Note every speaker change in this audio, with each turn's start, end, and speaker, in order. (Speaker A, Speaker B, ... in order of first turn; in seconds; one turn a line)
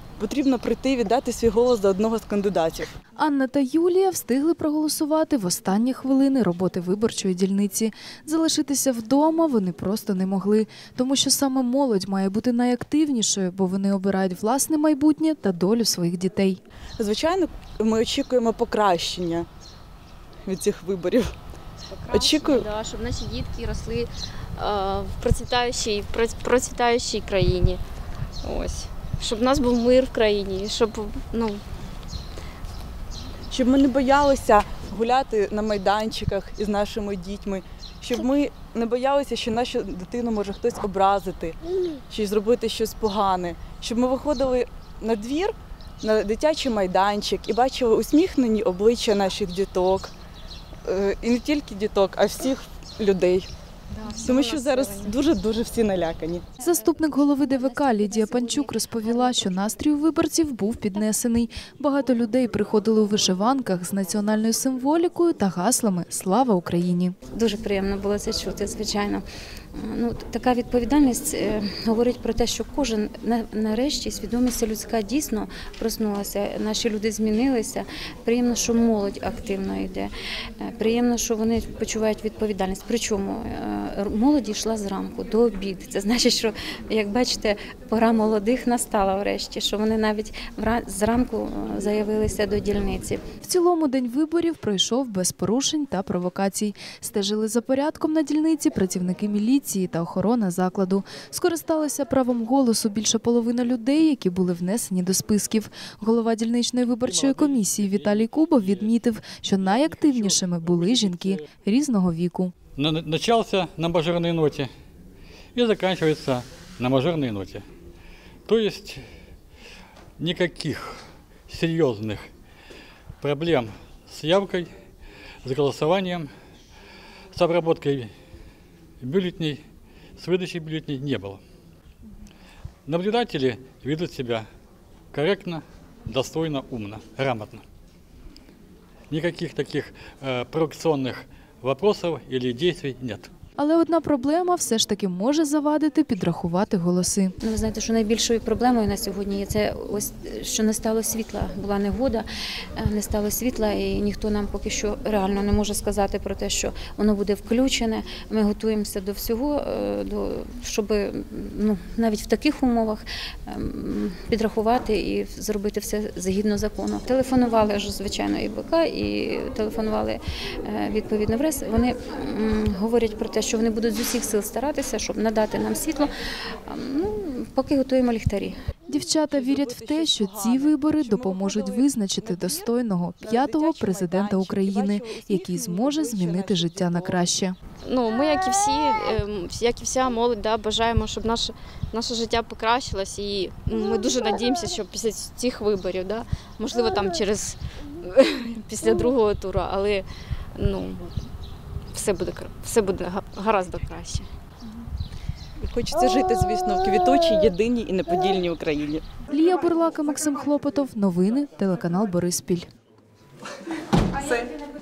Speaker A: 0.2-2.9
Speaker B: 3.2-16.6
Speaker A: 17.0-19.5
Speaker A: 20.4-21.3
Speaker C: 21.9-27.8
Speaker A: 22.1-22.7
Speaker C: 28.4-31.6
Speaker A: 33.5-41.6
Speaker A: 42.1-50.1
Speaker A: 50.9-53.5
Speaker C: 53.9-55.2
Speaker A: 54.2-56.5
Speaker B: 56.6-67.2
Speaker D: 67.3-69.2
Speaker D: 69.8-93.2
Speaker B: 93.4-112.5
Speaker E: 107.0-108.9
Speaker E: 109.6-111.5
Speaker E: 112.8-114.7
Speaker E: 115.5-117.6
Speaker E: 118.5-119.0
Speaker E: 120.2-122.3
Speaker E: 123.2-124.7
Speaker E: 125.4-126.3
Speaker E: 127.3-128.1
Speaker E: 129.0-129.6
Speaker E: 130.2-131.4
Speaker E: 132.9-134.5
Speaker E: 135.1-137.6
Speaker E: 139.1-143.3
Speaker B: 143.6-147.3
Speaker D: 147.4-152.2
Speaker D: 152.8-176.1
Speaker D: 176.7-178.6
Speaker B: 178.9-187.6
Speaker A: 179.3-187.3
Speaker C: 187.8-201.1
Speaker C: 201.9-204.3
Speaker A: 205.6-209.0
Speaker B: 209.3-212.7